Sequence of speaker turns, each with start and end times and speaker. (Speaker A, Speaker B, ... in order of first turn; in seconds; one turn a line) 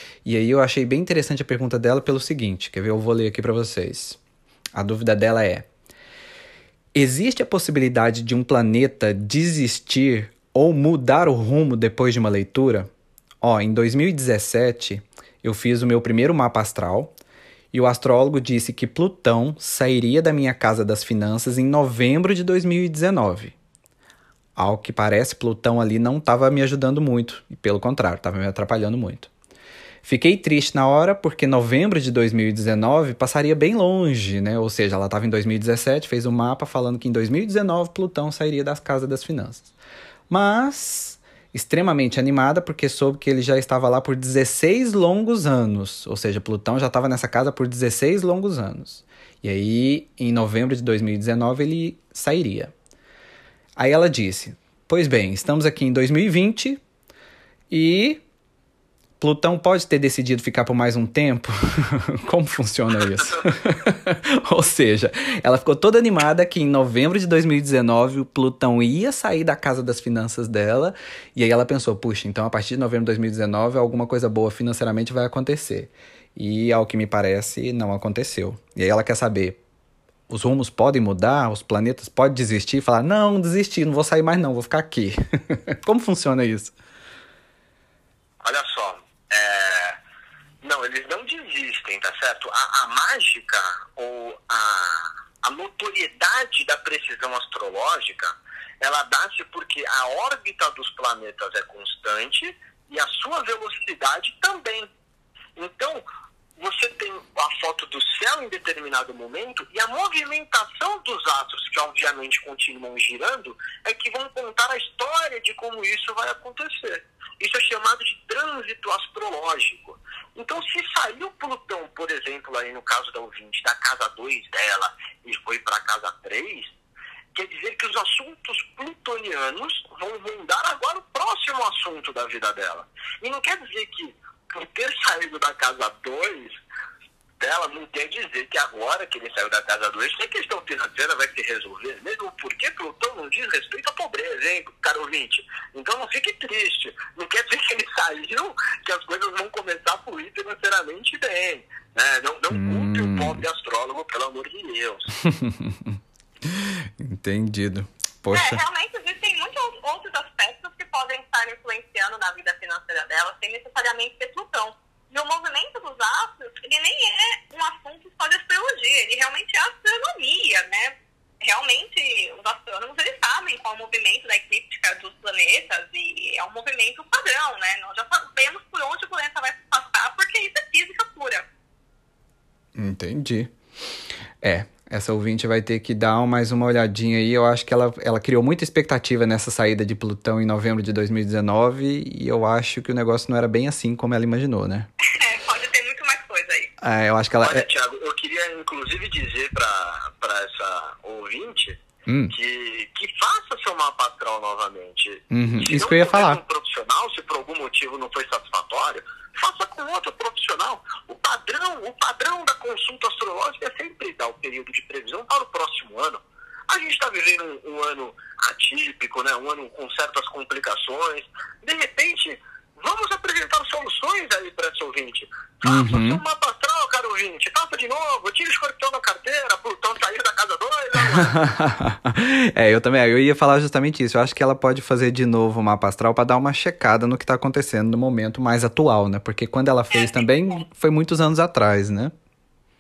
Speaker A: 0.2-4.2
Speaker A: 4.7-5.7
Speaker A: 7.0-12.9
Speaker A: 13.4-17.1
Speaker A: 17.7-23.6
Speaker A: 24.6-29.3
Speaker A: 30.1-39.7
Speaker A: 40.3-52.7
Speaker A: 53.8-56.8
Speaker A: 57.7-58.2
Speaker A: 59.2-79.6
Speaker A: 80.3-86.7
Speaker B: 88.4-90.0
Speaker B: 90.6-104.9
Speaker B: 105.6-106.0
Speaker B: 106.6-126.7
Speaker B: 127.3-136.5
Speaker B: 137.4-155.1
Speaker A: 152.5-153.4
Speaker A: 155.2-158.6
Speaker C: 158.3-181.5
Speaker A: 182.8-183.5
Speaker A: 184.4-194.9
Speaker C: 195.1-196.7
Speaker A: 196.8-197.7
Speaker B: 197.4-201.8
Speaker A: 202.1-202.3
Speaker B: 202.3-231.4
Speaker A: 205.3-206.4
Speaker A: 225.6-226.2
Speaker A: 231.0-242.1
Speaker C: 239.9-240.3